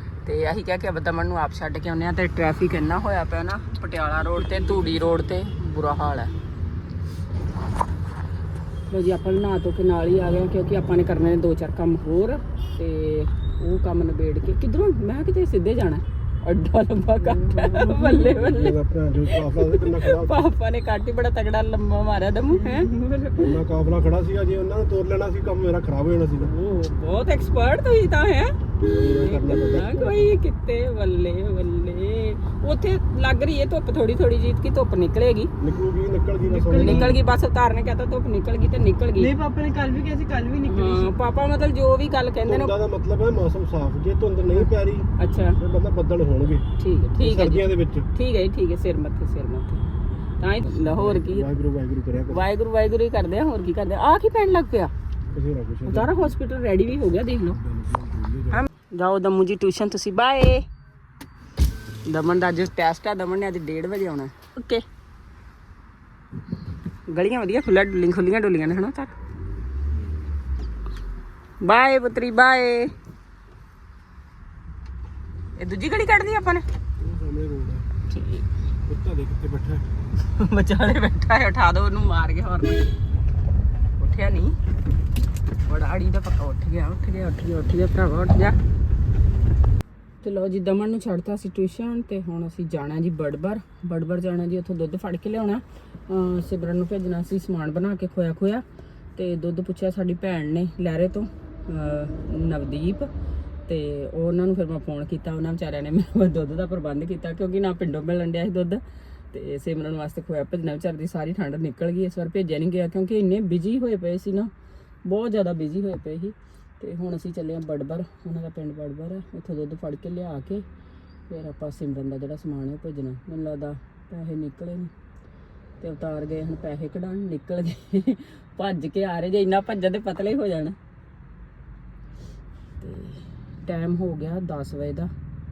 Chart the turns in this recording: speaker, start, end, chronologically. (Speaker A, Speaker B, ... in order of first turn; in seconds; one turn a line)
Speaker A: 0.2-6.3
Speaker B: 4.4-5.0
Speaker A: 8.9-23.5
Speaker C: 17.5-20.5
Speaker C: 23.4-26.5
Speaker A: 26.4-35.5
Speaker C: 28.8-30.3
Speaker C: 35.6-37.1
Speaker A: 36.6-39.3
Speaker B: 36.7-37.1
Speaker B: 39.2-41.1
Speaker A: 40.6-42.8
Speaker C: 42.5-46.7
Speaker A: 45.2-45.6
Speaker A: 46.8-49.9
Speaker C: 47.2-48.1
Speaker A: 50.4-51.5
Speaker C: 50.6-52.4
Speaker A: 52.3-54.9
Speaker C: 55.3-56.3
Speaker A: 55.9-57.6
Speaker C: 57.6-58.6
Speaker A: 58.5-60.7
Speaker A: 62.0-64.8
Speaker A: 67.1-69.2
Speaker A: 71.6-72.9
Speaker A: 75.6-76.7
Speaker C: 77.0-77.9
Speaker A: 78.1-78.5
Speaker C: 78.8-79.9
Speaker A: 80.2-82.9
Speaker A: 84.0-84.6
Speaker A: 85.7-88.6
Speaker A: 90.2-98.6
Speaker A: 99.2-103.1
Speaker A: 103.7-114.5
Speaker A: 115.0-120.7
Speaker A: 121.3-124.9
Speaker A: 125.8-130.8
Speaker A: 132.8-135.1